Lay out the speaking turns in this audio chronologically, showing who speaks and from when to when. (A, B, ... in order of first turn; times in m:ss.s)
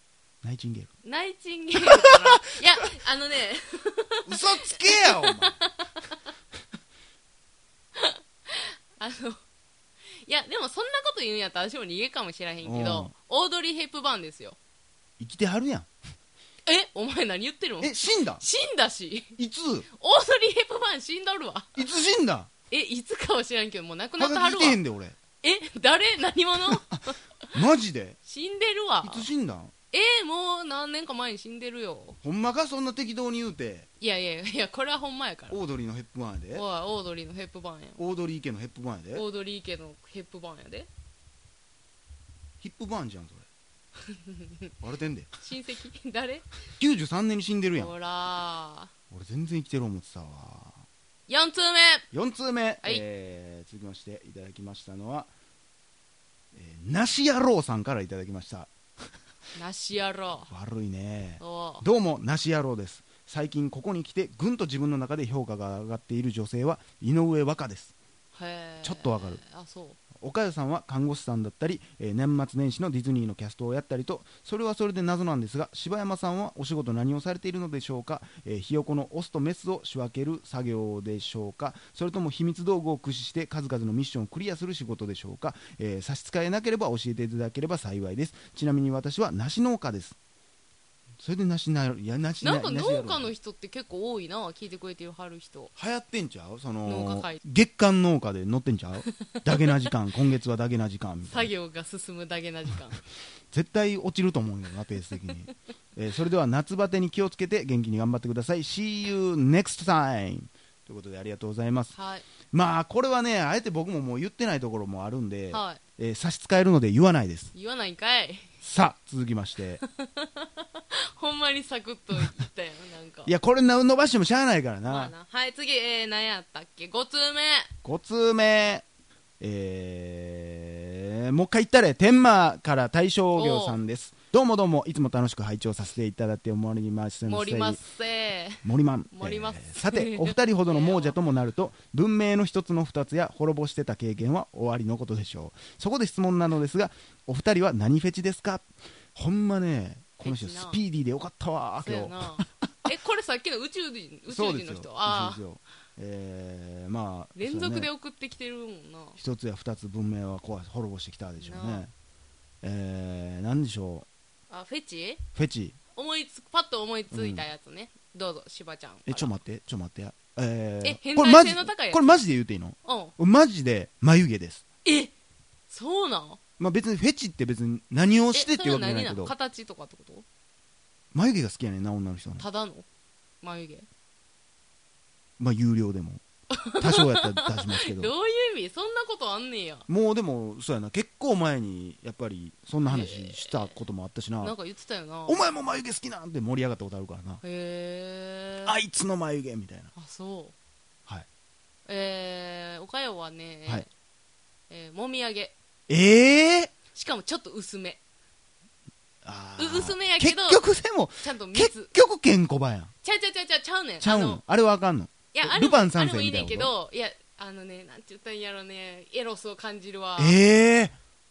0:00.4-0:00.9 A
0:01.0-0:06.1 B
0:01.9-0:02.3 A
0:04.3-0:05.6 A
0:08.0-0:09.4 B
0:10.1-0:14.6 B
0:12.6-0:13.1 A
0:15.2-0:15.9 A
0:16.7-0:19.4 B
0:17.8-0:18.4 A
0:19.4-0:19.9 A
0:19.9-0:21.9 B
0:21.8-0:22.5 A
0:22.7-0:24.8 B
0:24.2-0:25.2 A
0:25.4-0:27.2 B
0:27.5-0:28.2 A
0:28.3-0:29.3 B
0:29.0-0:29.7 A
0:29.9-0:32.2 B
0:32.2-0:33.9 A
0:34.0-0:35.6 B
0:35.5-0:36.6 A
0:36.5-0:38.0 B
0:38.0-0:39.2 A
0:39.1-0:40.9 B
0:42.6-0:43.5 A
0:44.1-0:44.5 B
0:44.8-0:45.3 A
0:45.4-0:46.5 B
0:46.8-0:47.9 A
0:47.8-0:48.9 B
0:49.1-0:50.8 A
0:51.3-0:52.1 B
0:52.1-0:55.3 A
0:56.5-0:58.7 A
0:59.6-1:00.5 B
1:00.5-1:08.0 A
1:01.4-1:01.8 B
1:08.3-1:10.0 B
1:08.8-1:09.4 A
1:10.2-1:30.2 A
1:31.2-1:33.3 A
1:32.4-1:35.7 B
1:35.8-1:41.5 A
1:36.9-1:37.4 B
1:41.2-1:43.0 B
1:43.5-1:52.0 A
1:51.9-1:52.3 B
1:52.5-1:57.5 A
1:55.5-1:55.8 B
1:57.5-1:58.5 B
1:58.6-1:59.8 A
1:59.9-2:03.3 B
2:03.3-2:05.1 A
2:04.9-2:07.7 B
2:07.8-2:08.9 A
2:09.4-2:17.8 A
2:13.4-2:13.8 B
2:17.3-2:18.6 B
2:18.6-2:32.5 A
2:19.2-2:21.2 B
2:30.2-2:30.8 B
2:31.8-2:35.4 B
2:34.3-2:37.9 A
2:37.4-2:39.2 B
2:39.2-2:41.9 A
2:41.4-2:41.8 B
2:42.6-2:44.1 A
2:44.5-2:45.2 B
2:45.4-2:45.8 A
2:46.0-2:49.4 B
2:47.1-2:47.5 A
2:49.1-2:54.6 A
2:50.8-2:52.2 B
2:52.8-2:53.1 B
2:54.8-2:55.1 B
2:55.7-2:56.4 B
2:56.6-2:59.3 A
2:58.3-3:00.2 B
3:01.1-3:02.4 A
3:02.4-3:02.9 B
3:03.4-3:03.9 B
3:05.4-3:06.2 A
3:06.5-3:09.9 B
3:06.8-3:08.1 A
3:09.9-3:14.6 A
3:12.8-3:13.7 B
3:14.4-3:15.5 B
3:15.3-3:17.4 A
3:17.4-3:18.7 B
3:18.6-3:19.9 A
3:20.0-3:20.6 B
3:21.9-3:23.9 B
3:24.7-3:25.5 B
3:25.9-3:26.7 A
3:26.9-3:28.0 B
3:29.2-3:32.9 A
3:29.6-3:30.6 B
3:31.2-3:31.9 B
3:33.0-3:34.4 B
3:34.0-3:36.7 A
3:35.3-3:40.4 B
3:40.2-3:41.0 A